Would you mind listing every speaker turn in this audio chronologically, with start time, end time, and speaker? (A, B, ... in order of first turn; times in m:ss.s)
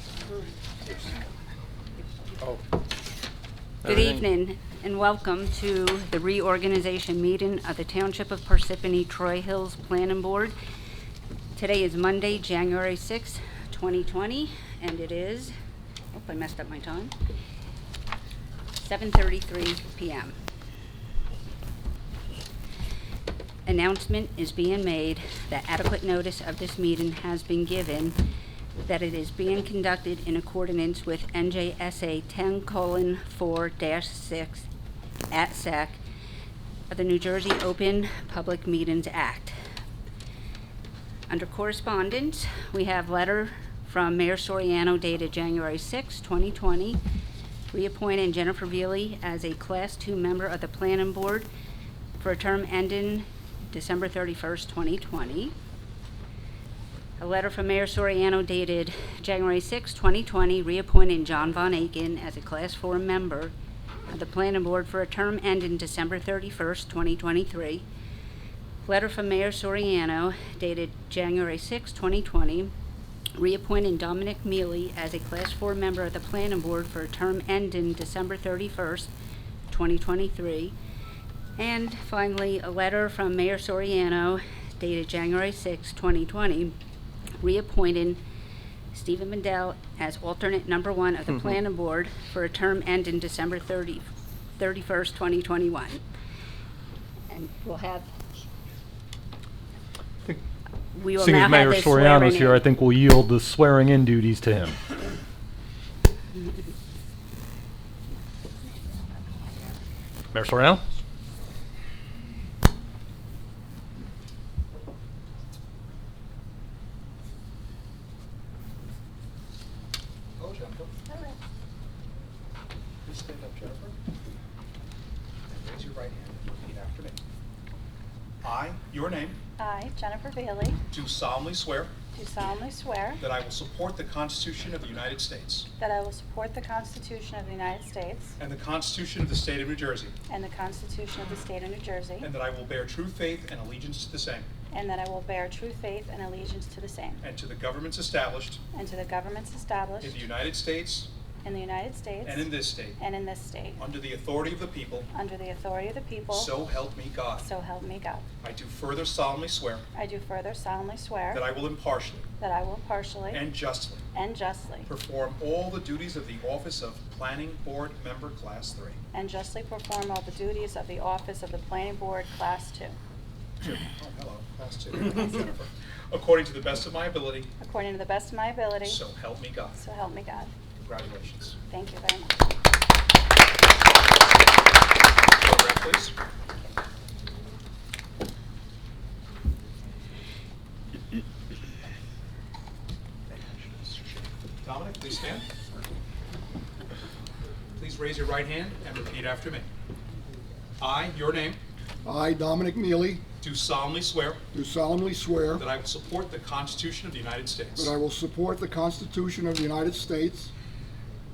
0:03.8-0:10.5 A
0:11.6-0:15.5 A
0:16.1-0:17.1 A
0:18.8-0:20.4 A
0:23.7-0:28.2 A
0:28.8-0:34.7 A
0:35.3-0:36.0 A
0:36.9-0:39.6 A
0:41.3-0:47.0 A
0:47.7-0:51.5 A
0:52.2-0:55.5 A
0:57.2-1:03.5 A
1:04.1-1:07.8 A
1:08.8-1:12.7 A
1:13.4-1:19.1 A
1:19.7-1:20.8 A
1:21.6-1:26.8 A
1:27.4-1:28.2 A
1:28.9-1:36.0 A
1:37.3-1:38.1 A
1:40.9-1:42.7 A
1:41.2-1:44.7 B
1:50.5-1:50.8 B
2:00.4-2:00.9 C
2:01.1-2:01.4 D
2:03.0-2:04.0 C
2:05.5-2:07.2 C
2:08.4-2:09.4 C
2:09.6-2:10.8 D
2:10.9-2:11.9 C
2:12.1-2:13.2 D
2:13.2-2:15.7 C
2:15.8-2:18.4 D
2:18.4-2:20.2 C
2:20.3-2:22.3 D
2:22.2-2:24.5 C
2:24.7-2:27.2 D
2:27.2-2:28.6 C
2:28.7-2:30.3 D
2:30.0-2:31.1 C
2:31.4-2:33.8 D
2:32.2-2:33.0 C
2:33.8-2:35.1 C
2:35.1-2:36.6 D
2:36.3-2:37.5 C
2:37.4-2:38.2 D
2:38.4-2:39.8 C
2:40.0-2:41.5 D
2:41.3-2:42.3 C
2:42.4-2:43.5 D
2:43.3-2:44.0 C
2:44.1-2:44.9 D
2:44.9-2:49.0 C
2:49.1-2:53.0 D
2:53.6-2:57.5 C
2:57.6-2:59.1 D
2:58.8-2:59.8 C
2:59.7-3:00.5 D
3:00.8-3:01.6 C
3:01.7-3:02.4 D
3:05.4-3:06.2 C
3:14.6-3:15.5 C
3:17.8-3:19.7 C
3:20.8-3:21.6 C
3:22.0-3:23.2 E
3:23.4-3:24.4 C
3:24.5-3:25.7 E
3:25.6-3:27.9 C
3:27.8-3:30.5 E